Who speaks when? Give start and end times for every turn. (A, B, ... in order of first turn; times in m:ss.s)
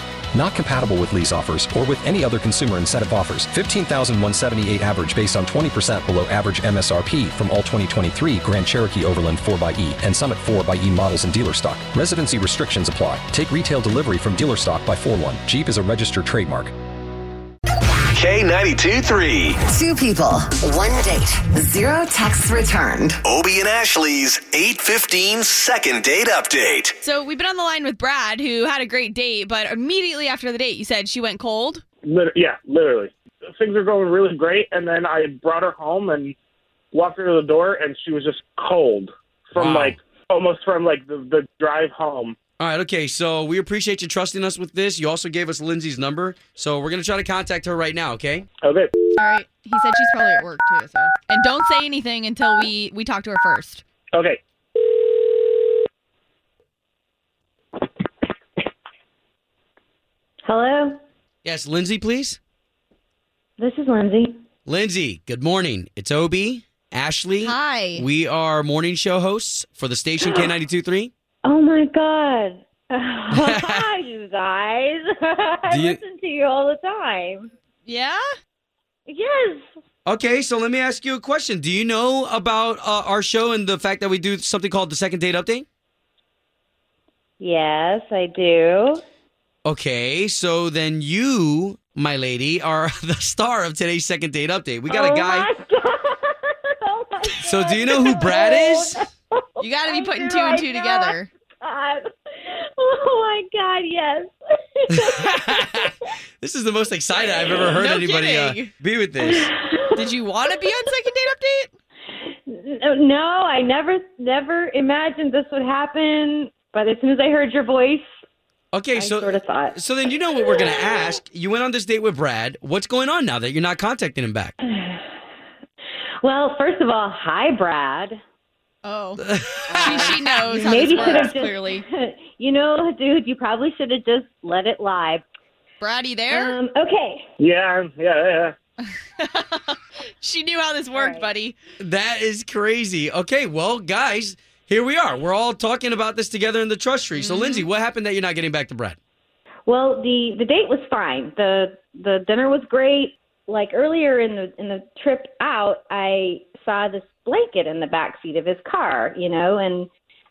0:00.3-0:16.7 A
0:18.1-0:19.6 B
0:19.6-0:23.2 C
0:23.2-0:27.0 B
0:27.0-0:31.8 D
0:32.0-0:36.3 E
0:36.9-0:42.4 E
0:39.6-0:40.0 F
0:42.6-0:48.5 F
0:48.6-0:48.9 E
0:49.1-0:53.8 D
0:54.1-0:54.4 E
1:00.5-1:01.0 G
1:01.4-1:02.4 F
1:03.6-1:04.4 G
1:04.7-1:11.1 F
1:07.4-1:08.1 D
1:11.4-1:17.5 G
1:13.3-1:13.9 F
1:15.7-1:16.0 F
1:17.8-1:18.2 D
1:19.1-1:19.7 G
1:20.0-1:25.7 F
1:27.4-1:29.0 G
1:29.6-1:35.5 F
1:34.9-1:45.9 G
1:37.4-1:39.0 F
1:39.6-1:41.3 D
1:44.9-1:49.5 F
1:47.7-1:48.7 D
1:49.2-1:50.0 G
1:49.9-1:51.7 D
1:52.3-1:58.1 G
1:58.7-2:04.5 F
1:59.0-1:59.8 G
2:04.7-2:05.0 G
2:06.2-2:08.2 G
2:08.8-2:11.9 D
2:09.2-2:10.2 F
2:09.7-2:15.2 G
2:10.9-2:11.3 E
2:15.8-2:16.5 D
2:16.3-2:17.2 G
2:17.4-2:18.6 E
2:19.2-2:21.6 D
2:20.9-2:21.3 G
2:21.8-2:29.0 F
2:27.2-2:27.6 D
2:29.7-2:39.9 G